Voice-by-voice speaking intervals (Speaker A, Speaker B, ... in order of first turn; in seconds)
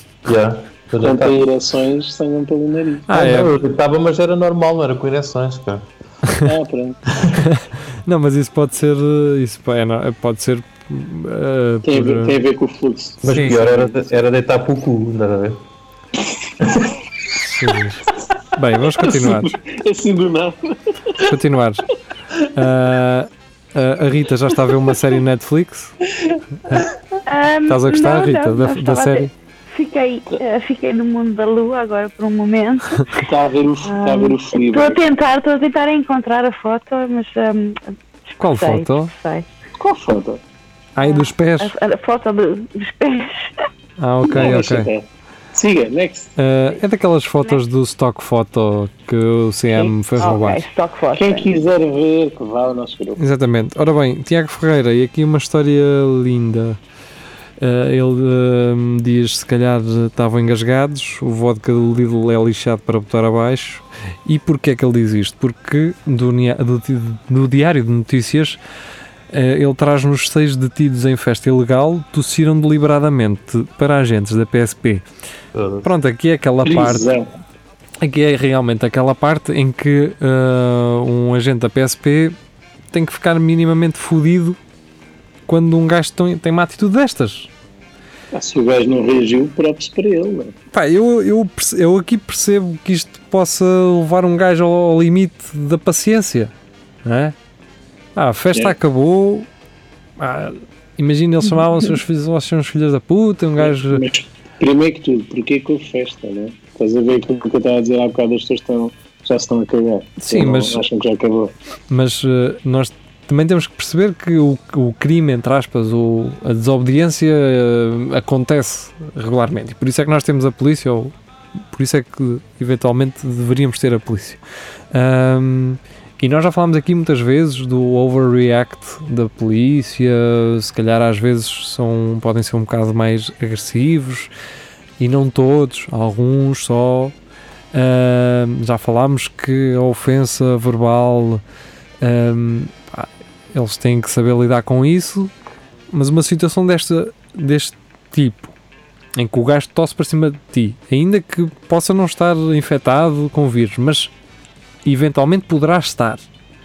Speaker A: 0.2-1.4, 3.1-5.8, 7.1-7.5, 13.2-15.6, 16.6-16.9, 75.5-75.9
Speaker B: 1.0-3.1, 6.4-7.0, 11.8-14.1, 18.9-21.3, 26.1-26.9, 33.1-35.0, 39.8-40.4, 44.2-46.3, 51.1-53.2, 76.6-77.3, 88.3-90.5, 103.6-111.5
Speaker C: 3.1-3.5, 7.4-12.4, 13.2-13.6, 17.4-19.5, 21.2-21.9, 22.5-26.0, 27.7-29.3, 38.4-39.1, 40.9-41.7, 44.0-44.9, 46.4-50.6, 53.2-56.8, 57.6-68.6, 69.3-75.0, 75.8-77.1, 78.0-82.3, 82.9-84.6, 85.5-87.5, 90.7-96.5, 97.0-97.3, 98.2-99.5, 100.2-104.0, 110.2-110.8, 111.9-121.1, 121.7-124.4, 124.9-134.3, 135.0-137.1, 137.7-141.4, 142.0-145.3, 145.9-148.5, 149.2-154.1, 154.8-156.2
Speaker D: 27.2-33.2, 33.8-39.5, 41.0-43.5, 49.8-51.5